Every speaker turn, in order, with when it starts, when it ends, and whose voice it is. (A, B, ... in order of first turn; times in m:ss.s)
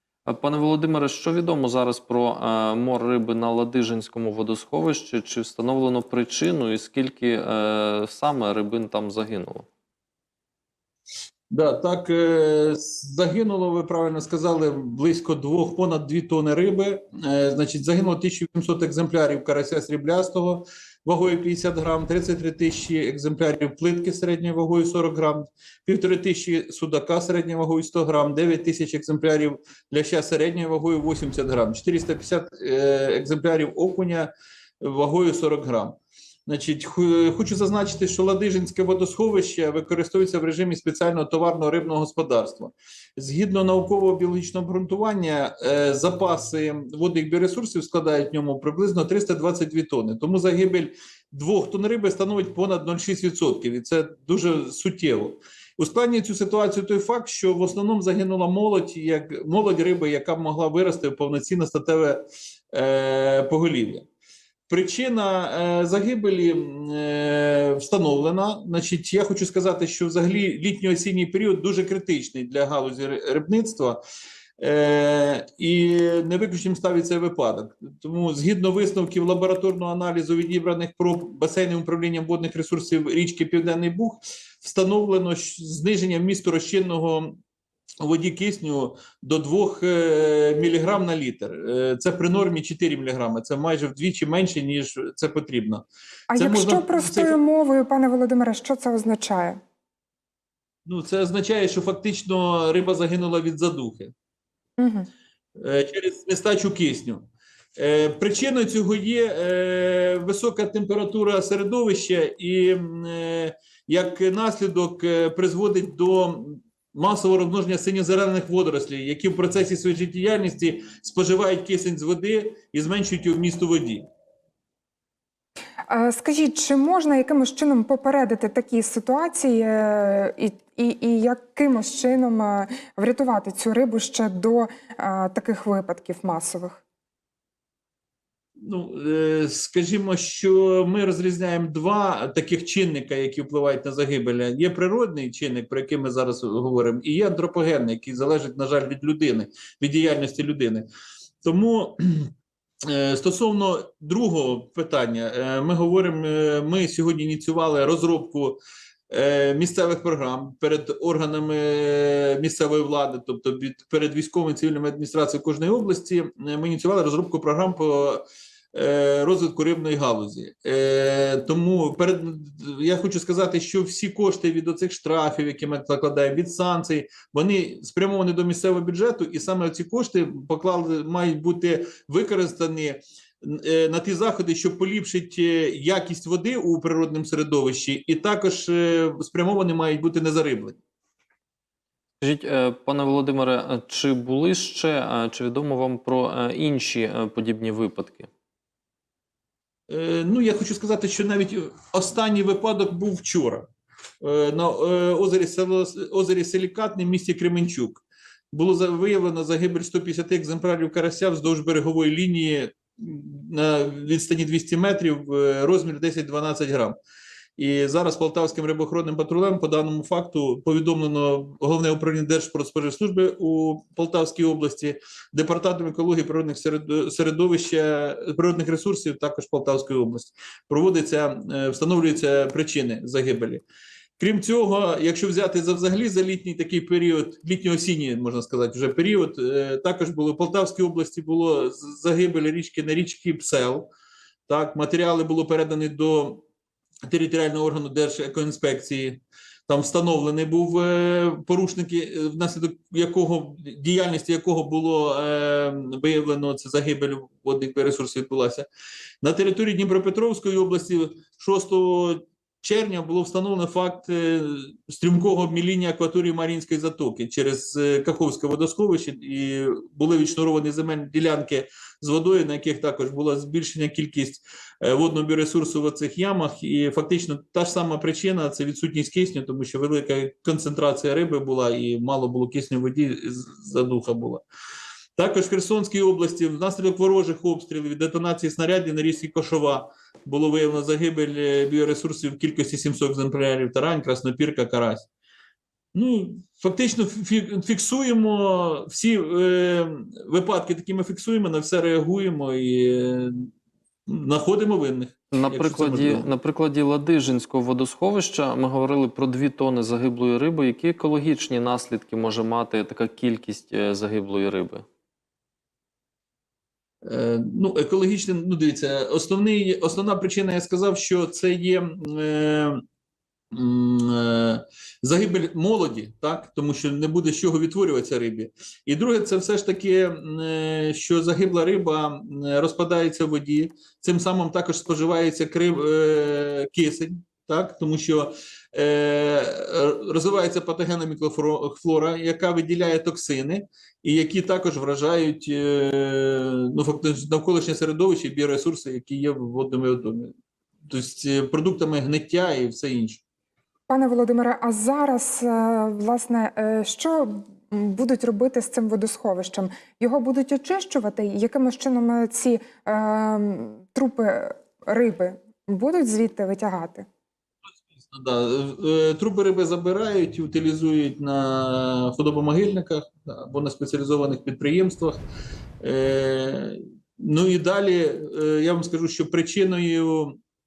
0:00.2-0:09.7 A
0:11.5-1:04.1 B
1:04.7-1:14.0 B
1:14.6-1:27.4 B
1:28.0-1:37.4 B
1:36.3-1:39.6 C
1:40.8-1:44.1 B
1:44.8-1:45.1 C
1:45.6-2:04.0 B
2:05.9-2:16.8 C
2:18.6-2:30.9 B
2:31.4-2:32.3 B
2:32.8-3:10.8 B
3:12.2-3:18.3 A
3:19.9-3:23.7 B
3:24.2-3:37.0 B
3:37.6-3:53.6 B
3:54.2-4:03.9 B
4:04.5-4:06.4 B
4:07.1-4:18.7 B
4:19.2-4:44.4 B
4:45.2-4:55.1 B
4:55.9-5:03.5 B
5:04.1-5:06.3 B
5:05.3-5:14.8 A
5:17.0-5:22.8 B
5:23.5-5:50.3 B
5:50.9-5:53.2 B
5:53.9-6:07.0 C
6:08.0-6:15.2 B
6:15.8-6:20.4 B